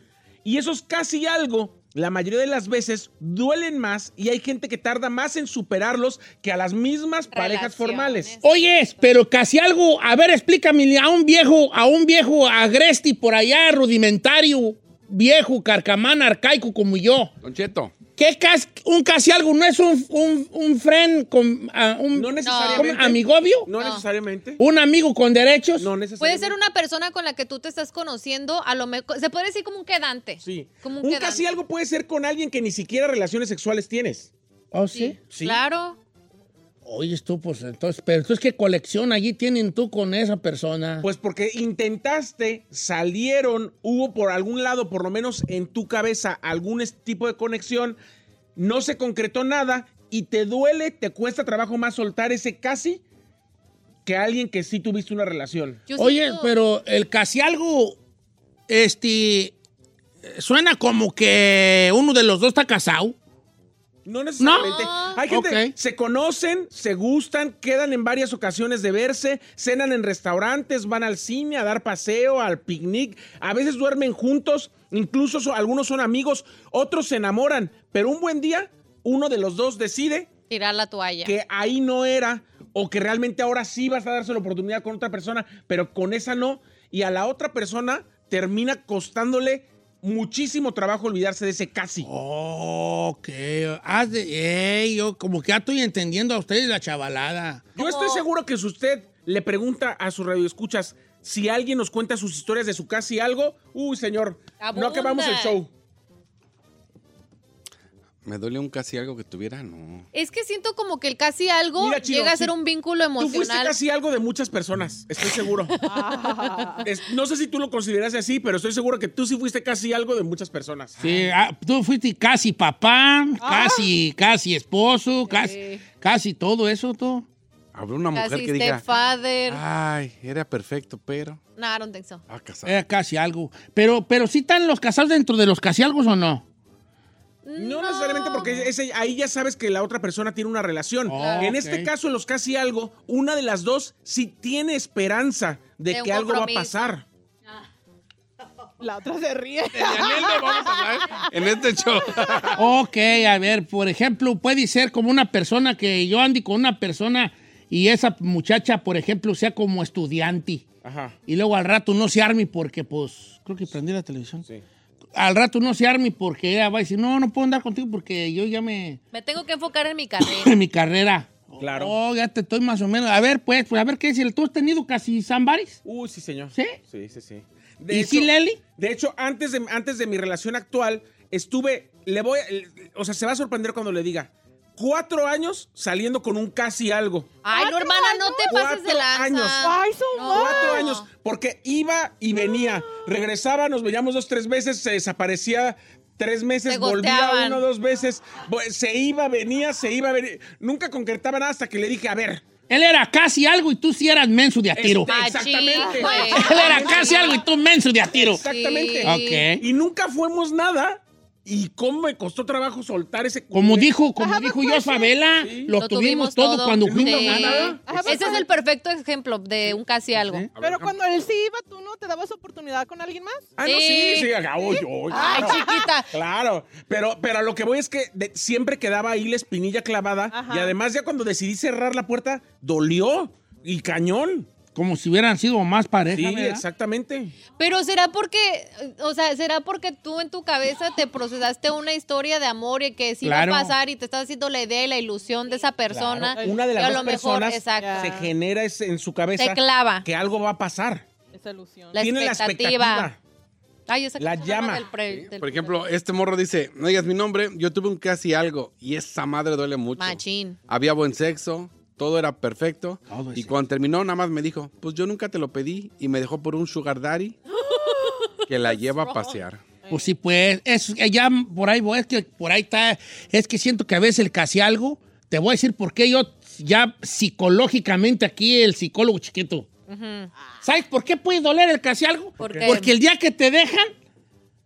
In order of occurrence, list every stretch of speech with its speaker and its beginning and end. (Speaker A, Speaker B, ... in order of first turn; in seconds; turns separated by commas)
Speaker A: 0.5-8.3, Speaker B: 7.3-8.9, Speaker C: 8.4-17.3, Speaker D: 17.4-17.9, Speaker C: 18.2-23.7, Speaker A: 22.1-24.6, Speaker B: 22.4-22.9, Speaker B: 23.7-24.0, Speaker C: 24.6-25.9, Speaker A: 25.8-26.6, Speaker B: 26.2-31.6, Speaker A: 30.4-34.3, Speaker C: 34.7-35.2, Speaker B: 34.9-36.0, Speaker A: 35.3-35.6, Speaker C: 36.9-41.1, Speaker A: 41.0-48.0, Speaker A: 48.6-53.0, Speaker A: 54.0-55.8, Speaker B: 55.9-56.5, Speaker C: 56.0-58.0, Speaker C: 58.7-59.5, Speaker C: 60.2-63.2, Speaker A: 64.0-80.3, Speaker C: 64.4-64.7, Speaker B: 64.5-65.2, Speaker C: 65.3-65.7, Speaker B: 80.5-81.3, Speaker A: 81.2-92.1, Speaker C: 92.0-97.7, Speaker B: 97.8-98.3, Speaker A: 97.8-105.7, Speaker B: 104.6-105.6, Speaker D: 108.2-110.1, Speaker B: 110.1-113.8, Speaker A: 111.8-112.5, Speaker A: 113.2-115.8, Speaker B: 115.8-116.7, Speaker E: 115.8-116.9, Speaker A: 116.8-121.3, Speaker C: 121.0-127.2, Speaker E: 123.4-123.9, Speaker B: 125.3-125.8, Speaker D: 127.7-128.8, Speaker B: 128.1-129.6, Speaker D: 129.5-131.4, Speaker B: 131.6-132.2, Speaker D: 132.3-132.7, Speaker C: 132.7-136.4, Speaker B: 137.4-138.7, Speaker A: 137.6-147.0, Speaker C: 141.1-141.9, Speaker B: 141.1-141.5, Speaker B: 145.9-146.7, Speaker E: 148.8-151.3, Speaker D: 149.7-152.6, Speaker C: 152.6-160.7, Speaker A: 160.8-161.2, Speaker C: 161.3-164.4, Speaker C: 165.2-169.0, Speaker B: 169.1-170.6, Speaker C: 170.2-175.8, Speaker A: 171.6-171.9, Speaker A: 175.8-187.3, Speaker C: 177.9-178.6, Speaker B: 187.4-191.1, Speaker E: 187.5-188.6, Speaker A: 188.5-189.7, Speaker E: 189.6-191.0, Speaker A: 190.3-202.4, Speaker E: 192.3-193.0, Speaker B: 196.7-197.6, Speaker C: 202.7-205.1, Speaker A: 204.8-207.4, Speaker B: 205.1-207.4, Speaker E: 205.8-206.3, Speaker C: 206.3-208.4, Speaker A: 208.1-213.9, Speaker B: 208.4-209.5, Speaker C: 209.1-209.7, Speaker C: 213.5-217.9, Speaker E: 214.2-215.2, Speaker A: 215.4-215.7, Speaker B: 215.8-220.5, Speaker A: 216.8-218.3, Speaker E: 217.8-218.5, Speaker C: 220.2-220.5, Speaker D: 220.5-221.0, Speaker E: 220.6-223.5, Speaker A: 223.6-234.5, Speaker B: 223.6-226.1, Speaker E: 230.3-230.8, Speaker C: 234.8-236.6, Speaker A: 236.1-237.4, Speaker B: 237.6-248.2, Speaker C: 243.2-243.8, Speaker A: 245.9-251.1, Speaker E: 246.4-247.1, Speaker E: 247.8-248.3, Speaker B: 249.4-250.1, Speaker E: 251.3-251.9, Speaker B: 251.9-253.1, Speaker A: 252.0-253.2, Speaker B: 253.9-255.8, Speaker A: 254.2-254.9, Speaker D: 255.1-267.4, Speaker B: 260.0-260.6, Speaker C: 263.1-263.6, Speaker E: 267.6-268.3, Speaker B: 267.9-268.3, Speaker D: 268.5-269.6, Speaker B: 269.0-269.4, Speaker E: 269.8-270.1, Speaker C: 269.9-279.7, Speaker B: 279.9-280.3, Speaker C: 280.6-283.9, Speaker B: 282.4-282.9, Speaker A: 282.4-282.8